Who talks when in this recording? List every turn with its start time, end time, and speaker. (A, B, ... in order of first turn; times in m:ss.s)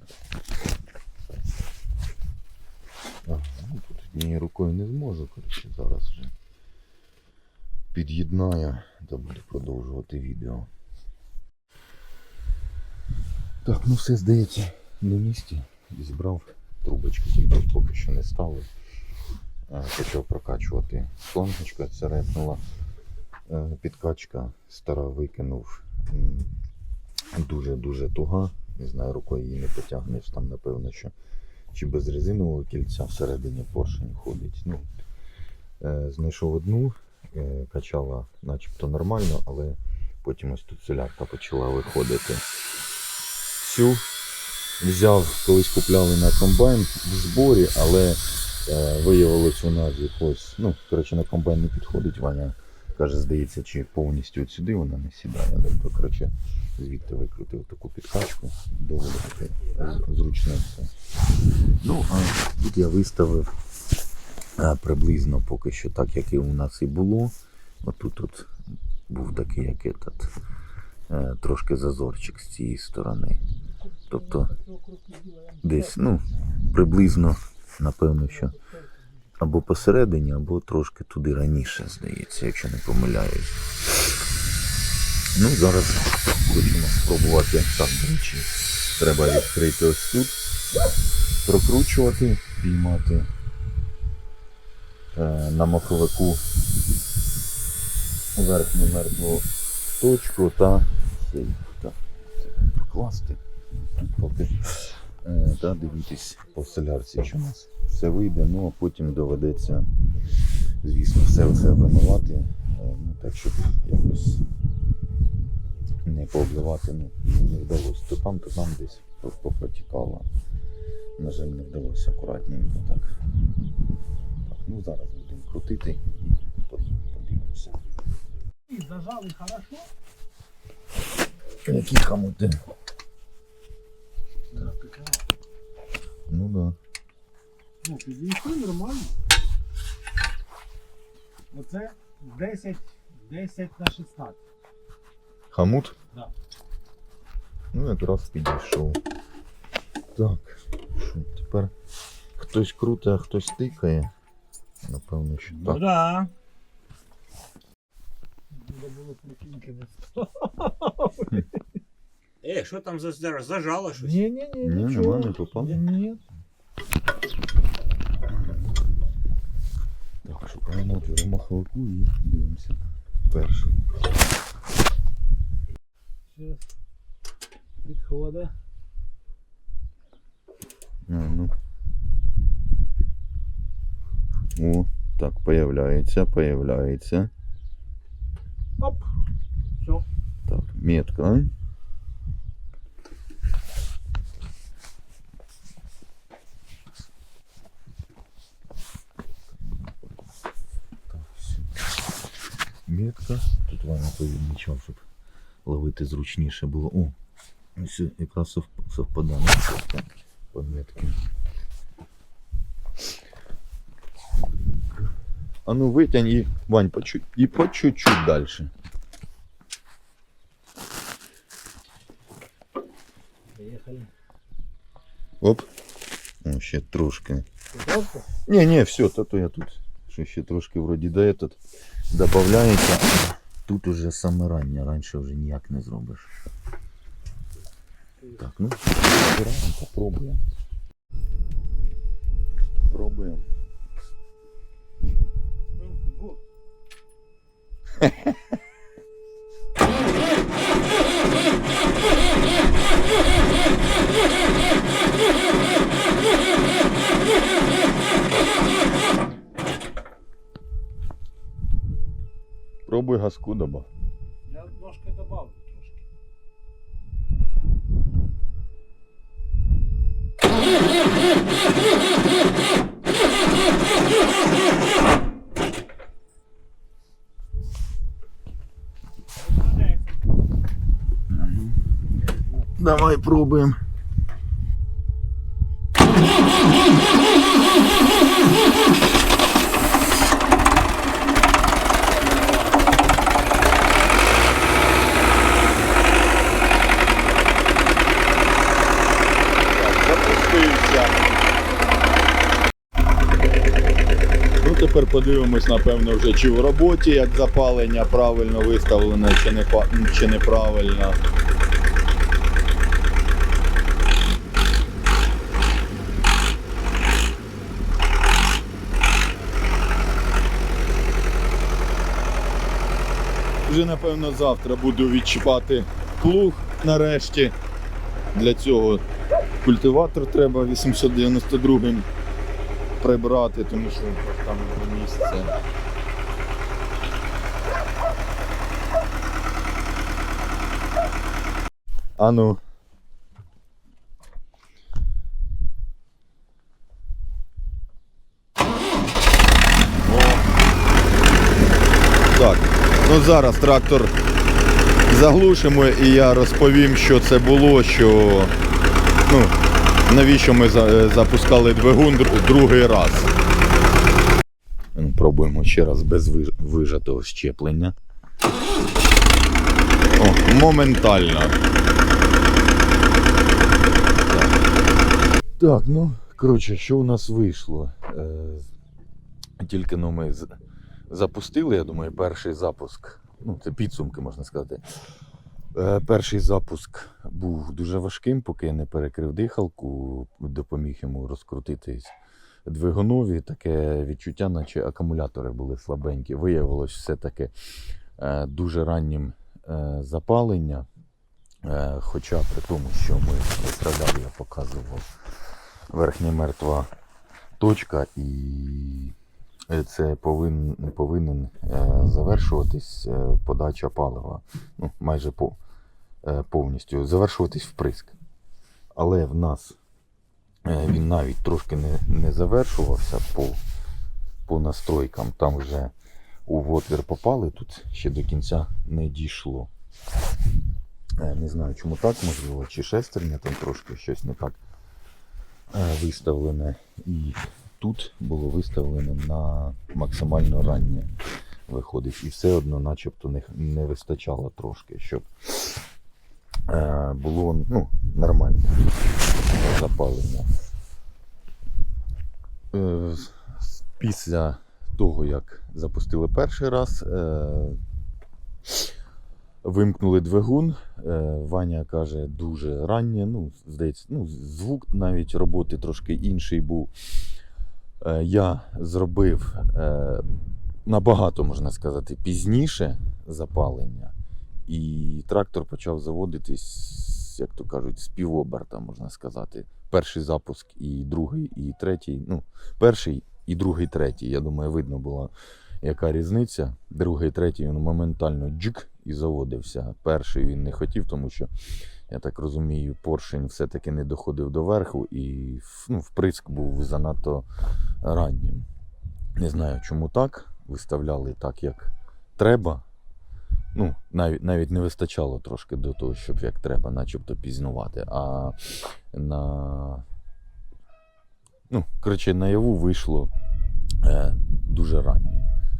0:03.2-0:06.3 A
0:07.9-0:10.7 A
0:13.6-0:18.7 A
0:19.7-0:22.6 A
0:23.5-0:26.5 A
0:27.3-0:31.1 A
0:31.7-0:34.9 A
0:35.8-0:42.4 A
0:43.6-0:44.0 A
0:44.8-1:00.9 A
1:01.8-1:03.5 A
1:04.6-1:08.5 A
1:09.1-1:10.3 A
1:11.1-1:13.4 A
1:14.1-1:14.6 A
1:14.6-1:15.6 B
1:15.6-1:18.6 A
1:19.4-1:23.6 A
1:25.3-1:30.4 A
1:31.4-1:33.3 A
1:35.1-1:36.4 A
1:38.3-1:43.4 A
1:43.9-1:49.9 A
1:50.8-1:54.4 A
1:56.0-2:00.3 A
2:01.2-2:03.1 A
2:04.4-2:07.8 A
2:08.7-2:09.9 B
2:11.6-2:12.6 A
2:14.5-2:15.2 B
2:16.3-2:16.8 A
2:17.8-2:19.1 B
2:21.5-2:24.4 B
2:25.5-2:26.0 A
2:27.7-2:29.0 A
2:30.1-2:31.7 A
2:32.4-2:34.1 A
2:34.8-2:35.9 A
2:35.6-2:36.3 C
2:38.5-2:41.4 B
2:42.4-2:44.3 C
2:44.1-2:46.2 B
2:44.6-2:45.9 A
2:48.2-2:48.6 A
2:50.2-2:53.9 A
2:56.3-2:56.6 B
2:57.9-2:58.5 B
3:01.1-3:01.5 A
3:04.5-3:07.3 A
3:08.8-3:09.1 B
3:10.4-3:11.5 A
3:19.5-3:20.3 A
3:21.1-3:21.8 A
3:22.9-3:25.0 A
3:25.6-3:27.2 A
3:27.8-3:31.2 A
3:35.6-3:38.7 A
3:43.6-3:44.1 B
3:45.4-3:45.7 A
3:46.4-3:47.4 A
3:47.8-3:48.1 C
3:48.3-3:51.6 A
3:52.1-3:56.3 A
3:58.3-4:00.4 A
4:02.9-4:03.4 A
4:05.8-4:06.3 B
4:08.0-4:08.3 A
4:22.9-4:23.9 A
4:24.5-4:26.0 B
4:41.3-4:41.8 A
4:42.7-4:43.8 A
4:59.7-5:01.2 A
5:04.6-5:11.2 A
5:23.6-5:27.5 A
5:28.3-5:29.0 A
5:29.6-5:32.1 A
5:33.0-5:35.5 A
5:42.2-5:42.6 A
5:50.0-5:50.4 A
5:52.3-5:54.1 A
5:55.0-5:58.5 A
5:59.2-6:03.3 A
6:04.9-6:07.9 A
6:10.2-6:11.6 A
6:14.1-6:14.6 A
6:15.5-6:18.7 A
6:19.6-6:20.5 A
6:21.1-6:24.8 A
6:25.7-6:32.1 A
6:32.6-6:37.5 A
6:38.2-6:40.8 A
6:41.6-6:45.2 A
6:45.9-6:46.9 A
6:47.6-6:49.2 A
6:49.7-6:55.6 A
6:56.2-6:58.2 A
6:58.9-6:59.8 A
7:00.6-7:03.6 A
7:04.4-7:05.9 A
7:06.4-7:09.7 A
7:11.2-7:14.6 A
7:15.7-7:21.1 A
7:21.7-7:25.8 A
7:26.7-7:28.8 A
7:29.5-7:30.5 A
7:32.7-7:37.8 A
7:39.6-7:46.9 A
7:48.0-7:50.3 A
7:50.8-7:54.1 A
7:54.7-8:11.5 A
8:12.1-8:17.5 A
8:18.0-8:18.7 A
8:19.4-8:22.8 A
8:23.7-8:30.0 A
8:31.7-8:33.3 A
8:34.0-8:35.5 A